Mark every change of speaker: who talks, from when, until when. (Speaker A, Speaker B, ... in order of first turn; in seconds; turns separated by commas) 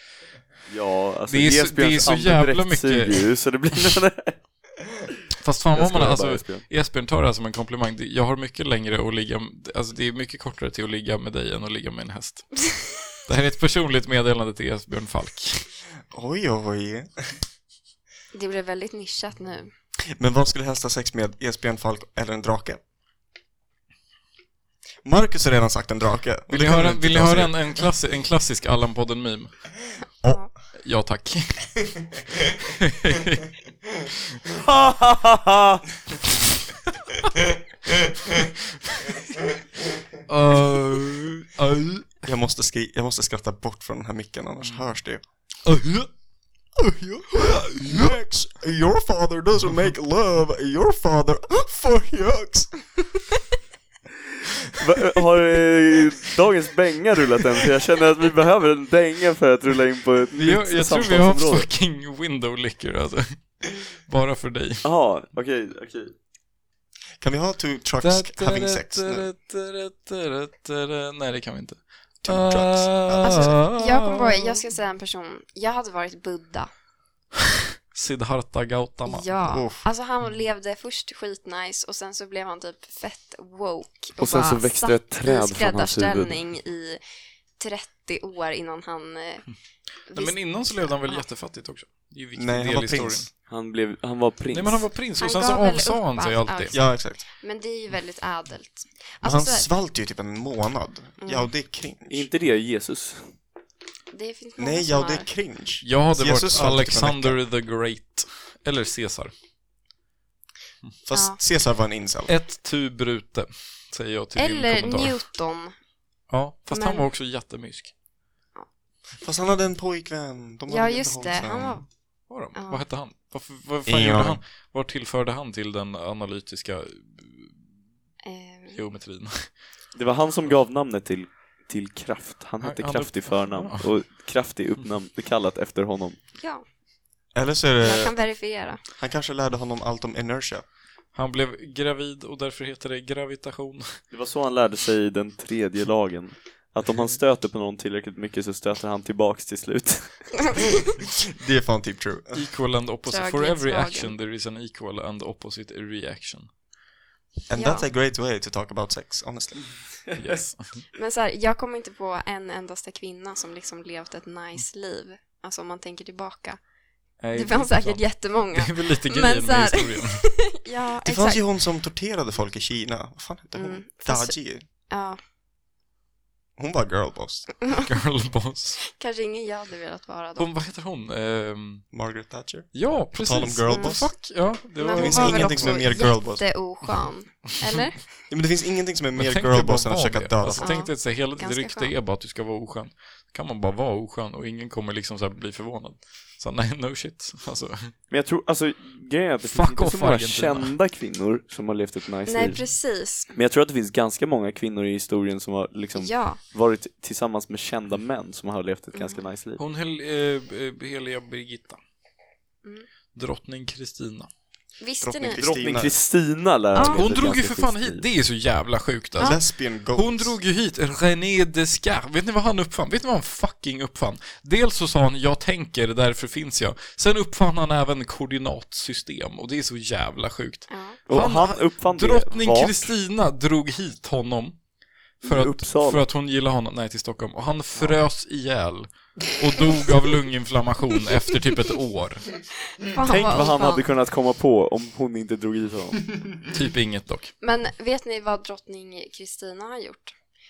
Speaker A: 0.7-4.4, Speaker B: 1.3-3.2, Speaker B: 5.4-12.6, Speaker A: 5.8-6.6, Speaker B: 13.3-15.6, Speaker C: 16.1-17.1, Speaker D: 18.3-19.7, Speaker C: 20.1-22.8, Speaker C: 25.0-27.9, Speaker B: 26.5-29.5, Speaker D: 30.2-30.5, Speaker B: 30.8-31.7, Speaker B: 32.6-33.4, Speaker A: 34.5-35.8, Speaker B: 40.3-42.1, Speaker C: 42.2-45.2, Speaker B: 45.6-46.1, Speaker C: 46.8-52.7, Speaker B: 47.3-48.1, Speaker A: 54.8-61.7, Speaker B: 60.3-63.5, Speaker B: 64.0-64.8, Speaker A: 64.8-66.1, Speaker C: 67.2-69.3, Speaker B: 68.0-74.6, Speaker C: 72.2-73.6, Speaker D: 73.2-76.7, Speaker B: 77.9-79.2, Speaker D: 79.0-87.0, Speaker C: 79.5-79.8, Speaker A: 84.2-86.3, Speaker D: 87.6-89.5, Speaker D: 90.1-91.2, Speaker B: 90.1-93.3, Speaker C: 92.3-93.3, Speaker A: 93.5-94.9, Speaker B: 94.5-96.7, Speaker D: 95.2-99.7, Speaker C: 96.7-97.2, Speaker C: 99.2-102.3, Speaker D: 101.2-101.5, Speaker A: 102.1-103.3, Speaker D: 104.1-105.3, Speaker C: 104.6-107.4, Speaker B: 105.8-109.3, Speaker C: 111.0-112.3, Speaker D: 111.1-111.4, Speaker B: 112.3-115.2, Speaker D: 114.3-115.7, Speaker B: 116.3-117.9, Speaker D: 116.7-117.0, Speaker C: 119.2-121.8, Speaker D: 120.7-121.9, Speaker B: 122.3-127.5, Speaker D: 122.5-122.8, Speaker C: 123.8-124.4, Speaker D: 128.2-128.8, Speaker B: 128.7-129.5, Speaker A: 129.9-136.2, Speaker B: 132.6-133.8, Speaker D: 136.4-136.6, Speaker C: 137.3-138.2, Speaker D: 137.8-138.8, Speaker C: 138.9-140.6, Speaker B: 141.1-143.9, Speaker A: 144.1-150.3, Speaker C: 151.4-152.4, Speaker B: 152.3-156.5, Speaker D: 153.1-154.1, Speaker C: 157.5-159.7, Speaker D: 157.5-157.8, Speaker B: 160.2-160.8, Speaker D: 161.0-166.6, Speaker B: 167.2-170.2, Speaker D: 167.3-171.4, Speaker C: 171.0-174.6, Speaker D: 173.5-175.2, Speaker C: 176.6-177.5, Speaker B: 177.8-178.8, Speaker D: 178.9-180.5, Speaker B: 180.4-181.8, Speaker C: 181.9-184.3, Speaker B: 182.7-185.9, Speaker D: 183.7-184.0, Speaker D: 184.8-188.1, Speaker C: 184.9-186.4, Speaker C: 188.3-190.8, Speaker B: 189.2-197.9, Speaker D: 190.6-191.9, Speaker A: 198.1-202.6, Speaker B: 199.5-200.7, Speaker D: 202.3-203.3, Speaker A: 203.3-209.6, Speaker D: 205.9-206.4, Speaker D: 208.9-209.2, Speaker B: 209.6-211.8, Speaker B: 213.1-214.3, Speaker D: 214.8-215.4, Speaker C: 215.0-216.0, Speaker A: 215.4-218.0, Speaker D: 216.7-217.0, Speaker B: 216.8-219.4, Speaker C: 219.2-220.3, Speaker B: 219.9-234.6, Speaker D: 230.7-231.0, Speaker A: 231.1-232.9, Speaker B: 235.2-242.2, Speaker A: 235.2-236.0, Speaker D: 242.8-243.8, Speaker A: 243.1-246.0, Speaker B: 246.5-247.3, Speaker D: 247.4-250.1